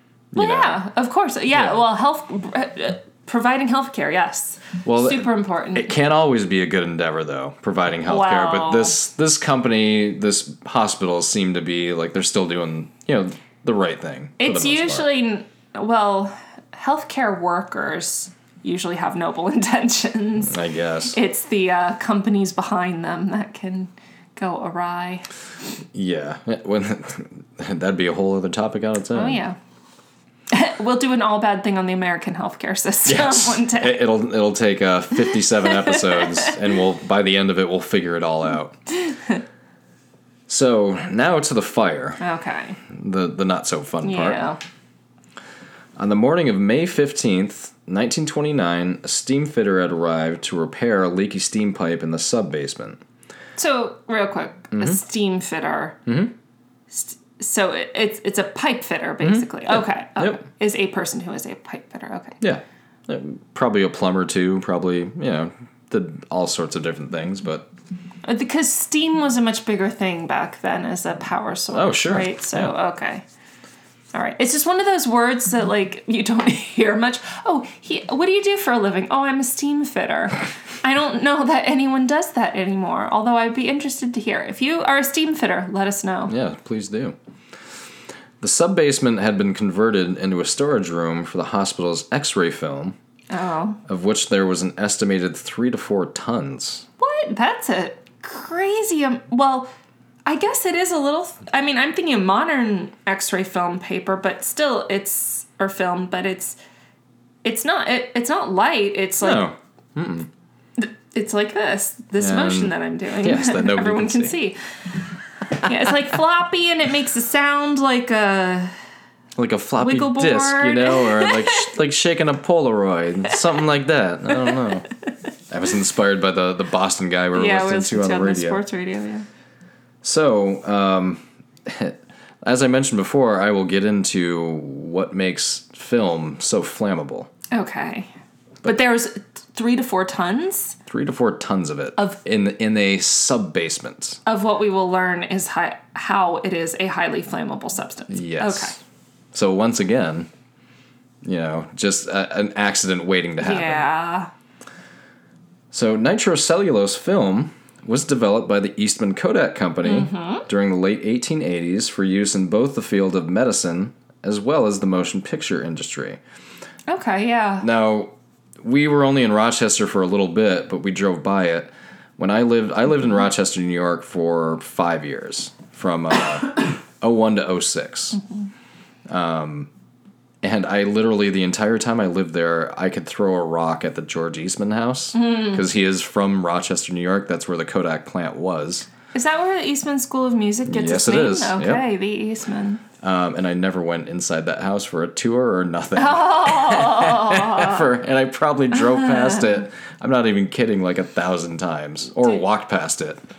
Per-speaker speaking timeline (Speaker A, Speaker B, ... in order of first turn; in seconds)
Speaker A: 0.3-0.8, 1.5-1.8, 4.8-15.1, 20.5-21.2, 25.9-29.4, 33.1-38.7, 40.5-42.2, 42.9-44.5, 46.0-53.0, 56.0-56.3, 59.2-60.4, 62.4-67.7, 71.7-72.7, 86.3-87.2, 88.4-93.0, 93.9-96.8, 109.2-110.3, 112.2-114.4, 119.3-124.9, 125.5-128.6, 130.0-137.3, 140.9-144.2, 148.1-148.8, 149.3-150.3, 151.2-153.9, 155.7-166.2, 167.6-178.2, 179.1-179.7, 180.4-188.9, 190.7-191.8, 193.0-203.2
Speaker B: 0.3-5.9, 8.1-9.0, 14.4-20.5, 21.1-25.2, 29.1-29.6, 30.5-34.0, 35.6-36.5, 39.0-39.4, 42.2-42.8, 44.0-44.6, 53.6-56.0, 56.9-62.4, 68.2-73.2, 74.1-86.3, 93.3-93.8, 97.0-99.7, 100.2-106.6, 107.4-109.5, 110.8-114.6, 115.6-118.7, 119.8-121.7, 127.3-129.2, 137.5-138.1, 138.6-140.8, 144.2-148.8, 153.4-154.3, 159.8-160.4, 166.9-167.7, 185.1-185.6, 189.1-192.8, 195.9-197.9, 198.7-199.5